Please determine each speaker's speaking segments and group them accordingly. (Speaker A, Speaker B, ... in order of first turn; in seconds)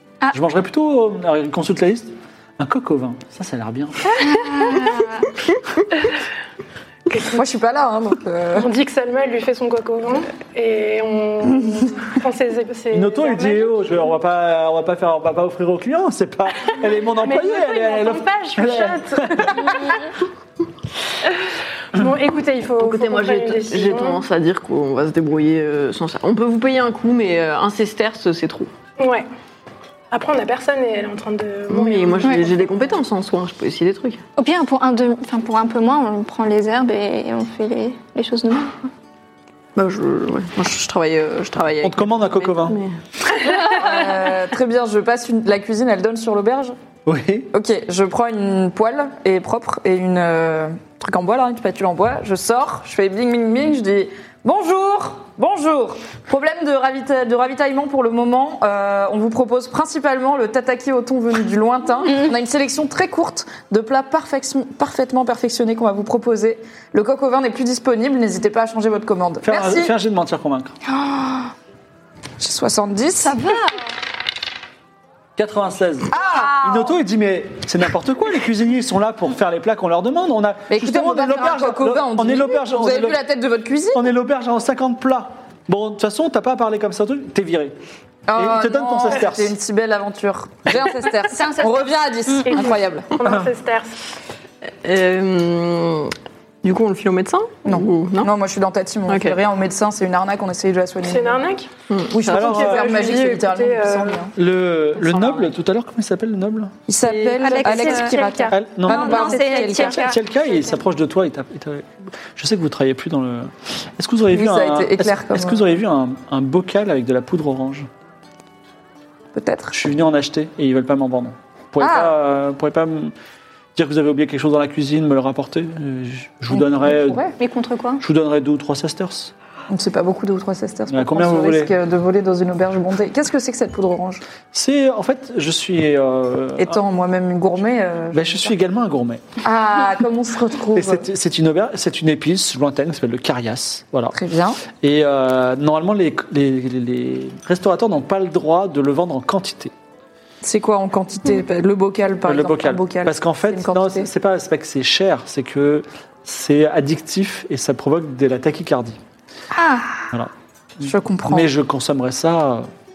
Speaker A: 0.3-4.2, 12.9-19.9, 41.8-42.8, 47.0-47.5, 69.4-70.7, 75.4-83.2, 83.9-87.8, 88.3-89.5, 102.3-103.2, 103.9-106.7, 108.5-117.9, 119.7-123.1, 123.7-127.2, 128.0-129.3, 130.9-131.7, 134.5-136.8, 138.1-139.2, 140.7-144.2, 144.7-149.7, 152.2-159.0, 161.2-162.7
Speaker B: 4.1-5.3, 34.4-38.7, 70.9-71.5, 73.2-73.9, 91.3-92.7, 107.4-110.2, 127.4-128.0, 159.6-160.0
Speaker C: 7.3-8.7, 43.5-46.8, 47.5-69.9, 72.4-73.4, 76.1-76.9, 80.7-84.1, 88.3-93.1, 97.6-101.4, 102.1-104.3, 106.9-110.1, 114.3-115.6, 119.3-119.8, 121.8-122.1, 126.5-127.3, 129.7-134.2, 136.6-138.5, 139.4-141.1, 144.1-144.6, 150.4-154.1, 160.8-161.5
Speaker D: 8.5-14.0, 17.2-19.8, 21.9-24.2, 29.0-29.3, 30.1-32.7, 92.5-94.0, 101.0-101.7, 102.3-104.2, 107.7-108.2
Speaker E: 22.8-28.7, 31.7-34.2, 39.8-43.0, 94.8-98.3, 99.1-99.4, 101.9-102.5, 107.0-108.0